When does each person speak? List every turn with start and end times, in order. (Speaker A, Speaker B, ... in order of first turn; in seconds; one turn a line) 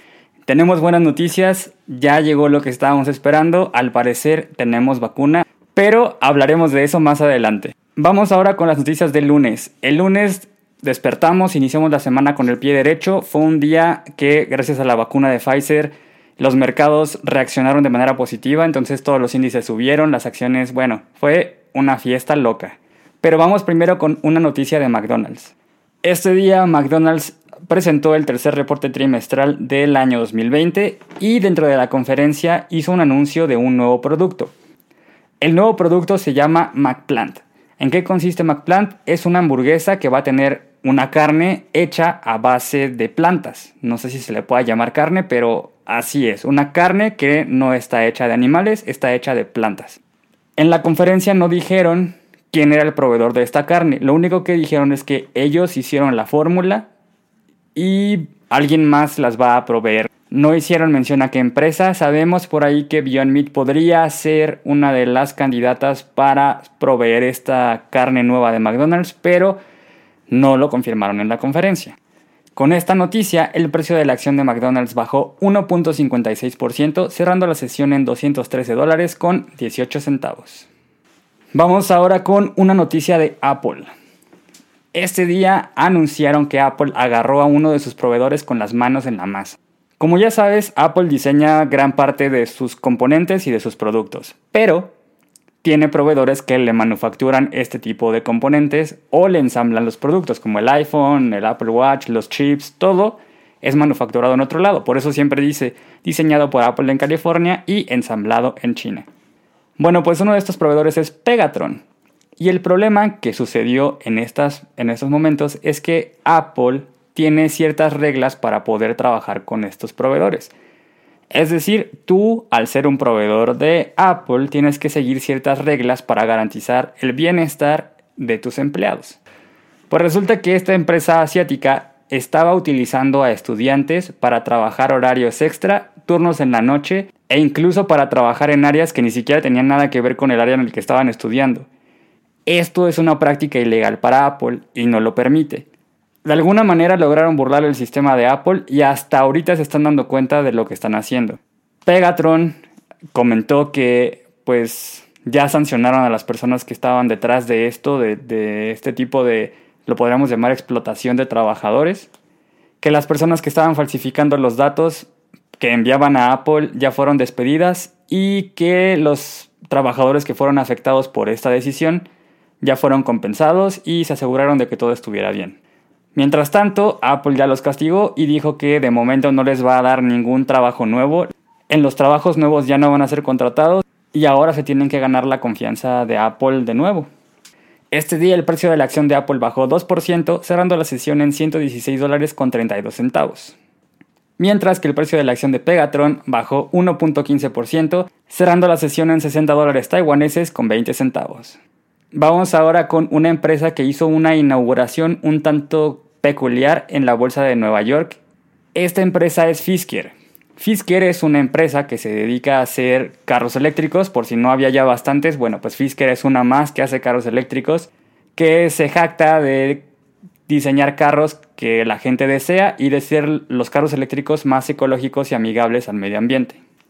Speaker A: 0.5-34.5
Speaker A: 35.4-50.0
Speaker A: 50.6-56.9
Speaker A: 57.7-69.6
Speaker A: 70.3-72.0
Speaker A: 72.5-80.7
Speaker A: 81.5-83.9
Speaker A: 84.9-94.9
Speaker A: 95.6-109.1
Speaker A: 109.8-111.8
Speaker A: 112.4-120.5
Speaker A: 121.3-129.2
Speaker A: 129.9-141.7
Speaker A: 142.4-145.7
Speaker A: 146.2-152.6
Speaker A: 153.1-162.1
Speaker A: 162.8-165.1
Speaker A: 165.6-172.1
Speaker A: 172.6-175.6
Speaker A: 176.1-187.1
Speaker A: 187.9-193.6
Speaker A: 194.4-201.6
Speaker A: 202.1-208.2
Speaker A: 208.8-219.8
Speaker A: 220.5-226.6